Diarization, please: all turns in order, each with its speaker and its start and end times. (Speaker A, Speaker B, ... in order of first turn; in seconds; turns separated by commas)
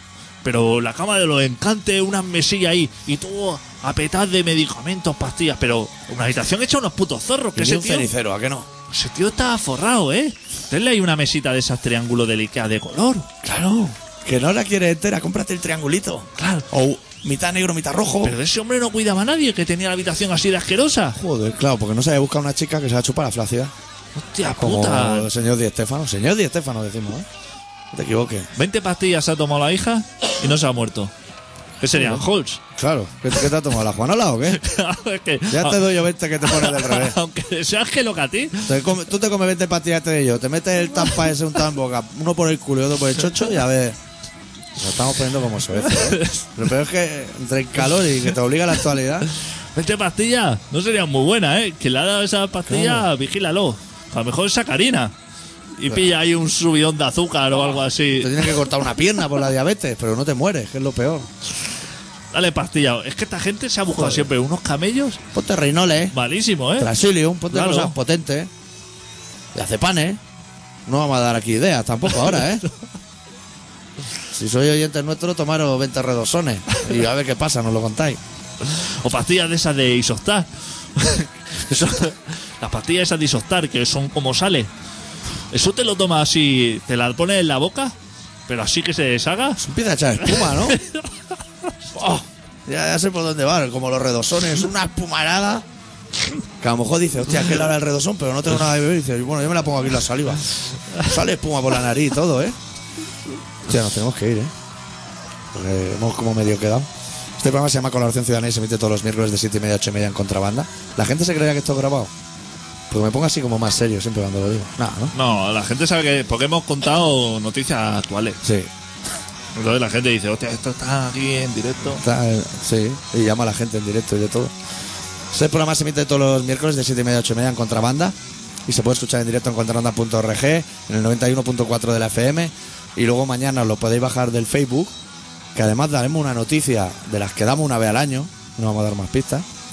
Speaker A: 0.4-8.1, Speaker B: 7.5-8.7, Speaker A: 8.9-13.3, Speaker B: 13.4-18.4, Speaker A: 16.4-16.6, Speaker A: 18.2-21.2, Speaker B: 21.1-23.7, Speaker A: 24.1-25.3, Speaker B: 24.5-27.3, Speaker B: 27.9-28.5, Speaker A: 28.6-31.1, Speaker A: 31.8-32.6, Speaker B: 31.9-32.2, Speaker B: 32.8-34.6, Speaker A: 34.5-38.8, Speaker B: 35.5-37.2, Speaker B: 38.6-44.0, Speaker B: 44.8-49.3, Speaker A: 45.8-46.5, Speaker A: 49.7-55.1, Speaker B: 52.7-53.1, Speaker A: 55.7-58.6, Speaker B: 57.6-61.3, Speaker A: 62.3-65.2, Speaker B: 64.0-64.3, Speaker B: 65.3-66.1, Speaker A: 66.1-66.9, Speaker B: 66.8-68.5, Speaker A: 67.5-68.0, Speaker B: 69.5-70.2, Speaker B: 70.8-72.6, Speaker B: 74.3-78.2, Speaker A: 78.6-84.7, Speaker A: 85.5-87.9, Speaker A: 88.5-89.6, Speaker B: 89.6-90.8, Speaker A: 90.2-91.2, Speaker B: 91.9-95.7, Speaker B: 96.6-102.6, Speaker B: 103.6-104.5, Speaker B: 105.5-112.1, Speaker B: 112.9-115.1, Speaker A: 115.1-118.4, Speaker B: 118.4-118.7, Speaker A: 119.5-122.0, Speaker B: 122.0-124.5, Speaker B: 125.3-128.2, Speaker B: 128.7-134.9, Speaker B: 135.5-139.4